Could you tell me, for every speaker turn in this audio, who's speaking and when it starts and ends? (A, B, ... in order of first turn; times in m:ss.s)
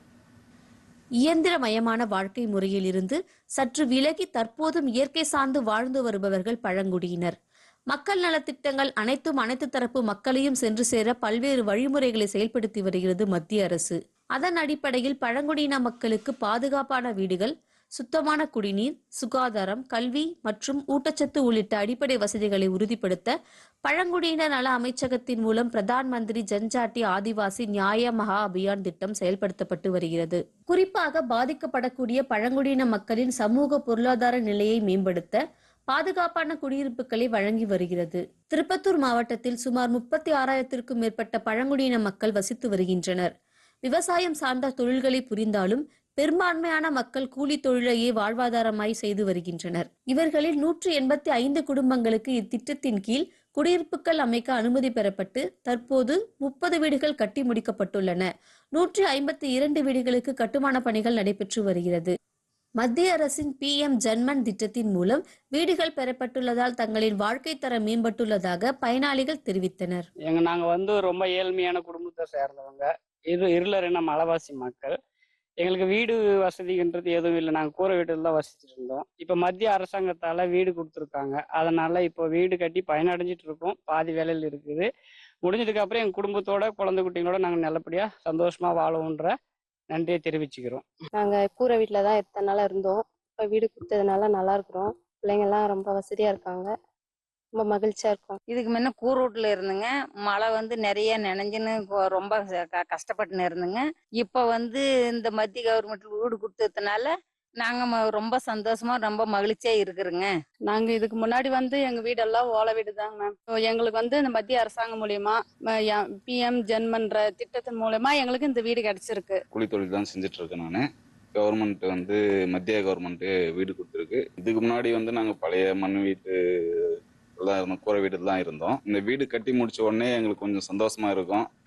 0:01.2-0:07.4 A
0:07.9-0:23.3 A
0:23.8-0:43.3 A
0:43.8-1:02.1 A
1:02.8-1:10.1 A
1:10.2-1:14.9 B
1:15.6-1:24.9 B
1:25.4-1:29.3 B
1:29.9-1:30.8 B
1:31.1-1:36.7 C
1:37.5-1:38.4 C
1:38.5-1:50.3 D
1:50.7-1:59.4 E
1:59.5-2:00.8 F
2:01.3-2:06.3 F
2:07.4-2:11.4 F